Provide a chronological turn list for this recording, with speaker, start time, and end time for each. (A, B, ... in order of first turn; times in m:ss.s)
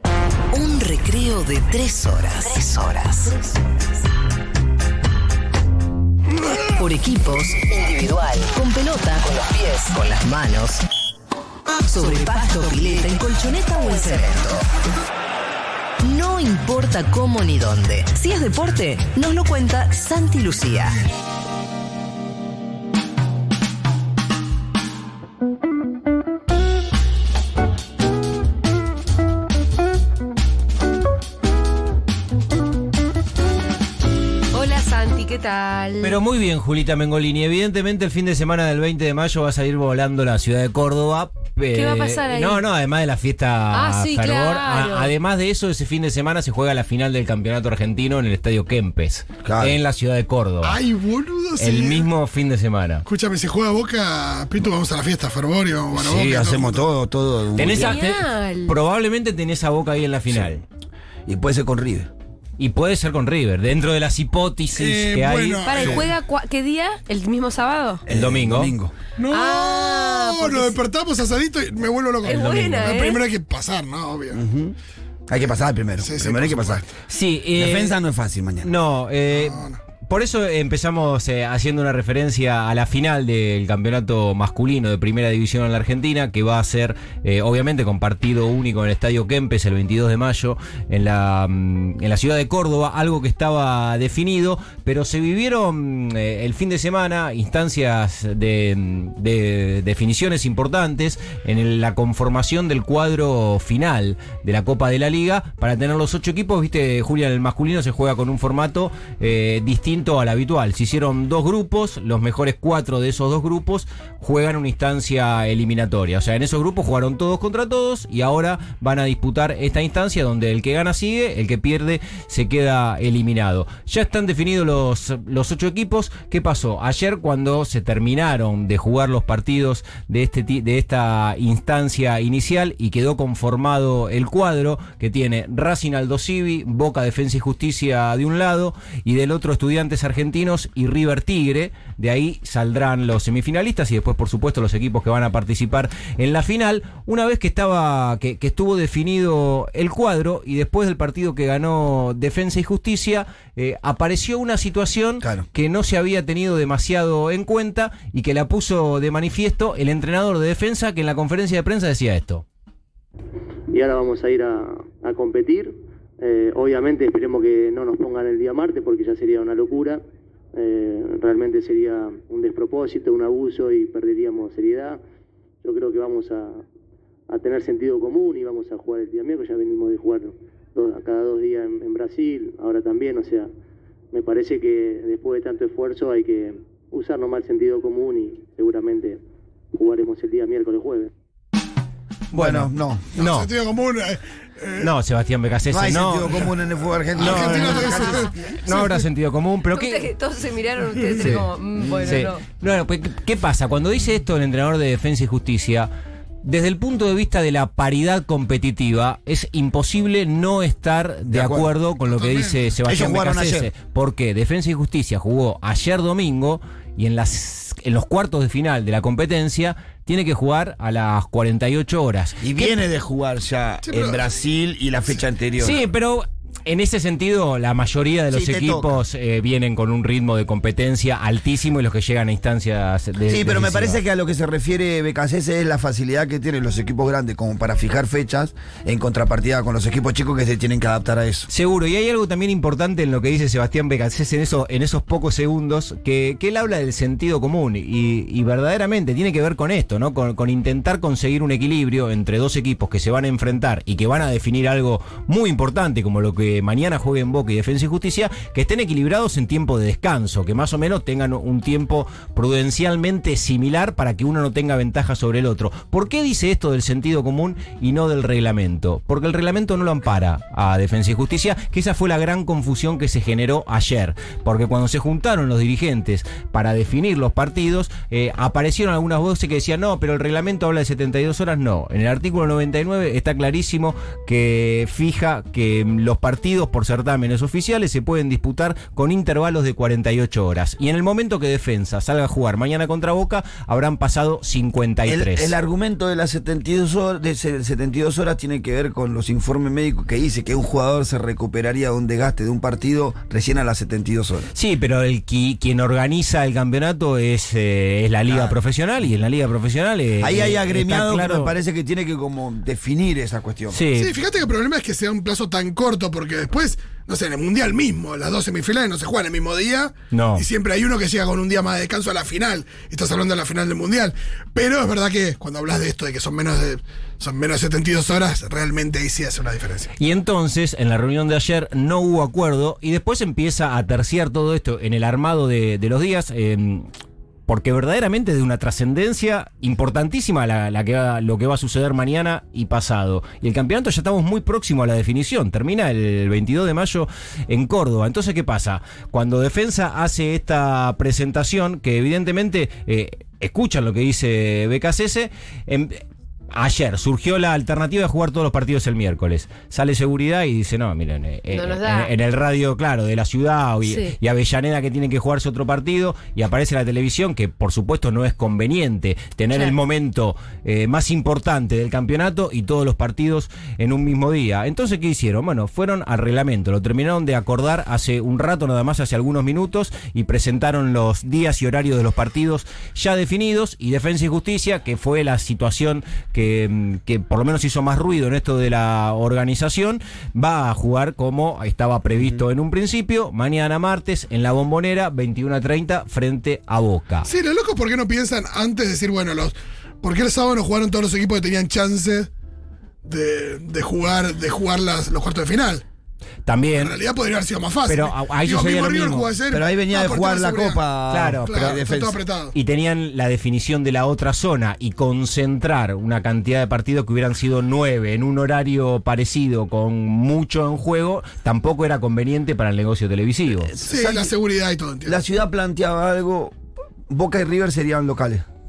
0:00.5-0:03.4 A
0:06.7-0:10.8 A
0:11.8-0:14.6 A
0:16.0-0:21.0 A
0:34.5-0:36.2 B
0:36.0-0:50.8 C
0:41.7-0:42.6 B
0:43.7-0:45.1 B
0:49.4-0:49.8 D
0:50.6-0:52.1 E
0:51.6-0:53.0 C
0:53.0-0:56.8 E
0:55.9-0:58.0 D
0:57.6-1:00.6 C
0:57.6-0:58.8 B
1:01.3-1:02.1 D
1:02.6-1:06.0 C
1:04.7-1:06.1 E
1:05.6-1:08.0 B
1:08.1-1:08.9 D
1:08.1-1:08.8 C
1:09.2-1:14.4 E
1:09.3-1:10.8 B
1:12.2-1:13.2 B
1:14.3-1:14.8 D
1:15.3-1:16.8 D
1:16.0-1:16.9 E
1:17.1-1:18.0 C
1:17.5-1:18.7 D
1:18.6-2:42.4 C
1:19.3-1:19.8 E
2:43.7-2:50.0 F
2:50.5-2:55.0 F
2:55.6-2:56.6 F
2:57.3-3:03.5 F
3:04.1-3:09.2 F
3:09.7-3:11.1 F
3:12.3-3:13.1 D
3:12.4-3:13.5 C
3:13.1-3:14.9 E
3:14.8-3:16.6 C
3:15.7-3:18.3 D
3:17.2-3:19.0 E
3:17.2-3:17.8 C
3:18.6-3:20.1 C
3:19.7-3:22.4 B
3:21.1-3:21.4 C
3:22.0-3:25.9 C
3:26.4-3:42.8 C
3:31.3-3:31.7 D
3:32.0-3:32.6 E
3:32.8-3:33.7 D
3:42.4-3:45.8 D
3:43.8-3:44.2 E
3:45.6-3:54.0 C
3:48.3-3:49.0 D
3:53.2-4:01.5 D
4:01.5-4:55.5 C
4:55.0-5:04.5 D
5:04.5-5:11.5 C
5:08.3-5:08.6 D
5:10.2-5:13.8 D
5:13.7-5:14.1 C
5:13.9-5:29.9 E
5:20.1-5:20.4 C
5:30.0-5:36.9 C
5:37.5-6:37.3 C
6:01.5-6:02.1 B
6:03.8-6:04.2 B
6:37.2-6:42.3 E
6:43.0-6:45.8 E
6:46.4-6:47.0 C
6:46.8-6:50.8 E
6:47.9-6:49.3 C
6:49.5-6:52.2 D
6:51.1-6:51.8 C
6:51.4-6:52.5 E
6:52.5-7:03.7 C
7:03.7-7:04.3 D
7:03.8-7:05.2 E
7:05.0-7:06.6 D
7:07.1-7:08.4 D